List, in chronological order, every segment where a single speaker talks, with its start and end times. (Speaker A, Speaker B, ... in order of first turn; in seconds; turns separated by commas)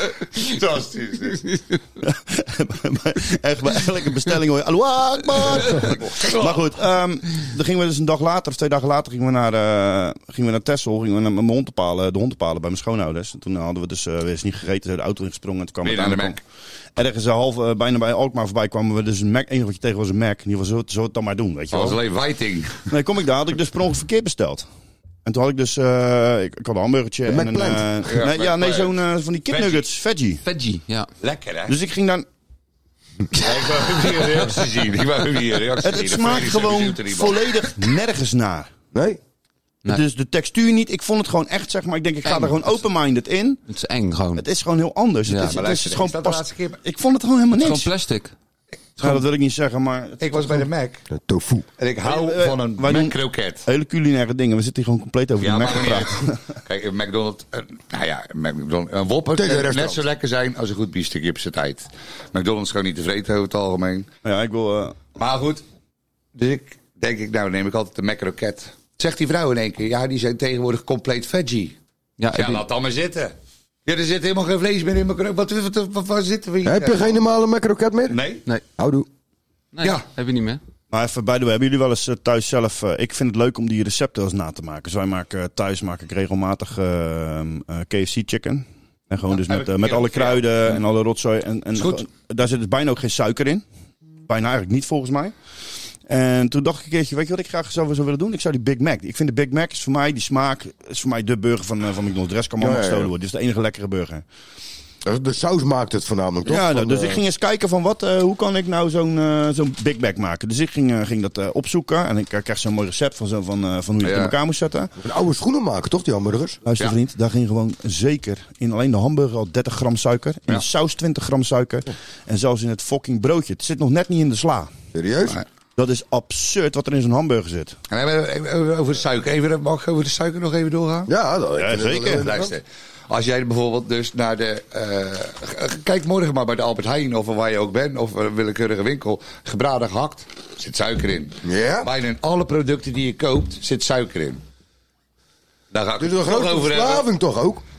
Speaker A: 0.3-1.4, Speaker B: 1.4-1.7, Speaker C: 2.0-16.4, Speaker A: 5.7-6.6, Speaker A: 15.8-16.4, Speaker C: 17.0-22.0, Speaker A: 21.7-22.9, Speaker C: 22.9-24.7, Speaker C: 25.2-30.4, Speaker D: 27.3-28.0, Speaker A: 28.1-29.0, Speaker A: 29.5-29.9, Speaker B: 30.4-31.1, Speaker A: 31.2-31.8, Speaker C: 31.7-32.3, Speaker A: 33.3-37.5, Speaker C: 35.8-38.7, Speaker D: 38.9-39.2, Speaker C: 39.9-43.6, Speaker B: 42.2-42.7, Speaker B: 43.7-44.4, Speaker C: 44.4-47.9, Speaker B: 45.3-45.6, Speaker A: 45.4-46.8, Speaker B: 47.6-48.3, Speaker C: 49.0-50.7, Speaker A: 50.2-51.1, Speaker D: 51.1-51.7, Speaker A: 51.8-53.7, Speaker C: 52.0-56.4, Speaker A: 55.4-64.1, Speaker D: 59.4-60.0, Speaker C: 64.2-65.0, Speaker A: 65.2-65.6, Speaker A: 66.4-71.8, Speaker B: 72.2-72.6, Speaker A: 72.3-73.3, Speaker A: 73.9-77.2, Speaker D: 76.7-78.2, Speaker A: 78.1-78.4, Speaker D: 78.8-79.1, Speaker B: 79.7-80.6, Speaker C: 80.9-93.7, Speaker A: 89.3-90.8, Speaker A: 91.8-92.0, Speaker C: 94.3-95.3, Speaker C: 96.1-104.2, Speaker D: 102.6-103.1, Speaker D: 105.0-107.2, Speaker C: 106.5-114.9, Speaker A: 114.0-114.3, Speaker D: 115.0-116.6, Speaker C: 116.7-124.7, Speaker D: 124.9-125.4, Speaker C: 125.8-127.8, Speaker A: 127.9-131.1, Speaker D: 131.1-132.5, Speaker C: 131.6-132.3, Speaker A: 132.1-144.4, Speaker D: 141.4-141.9, Speaker A: 145.7-147.1, Speaker D: 146.0-147.6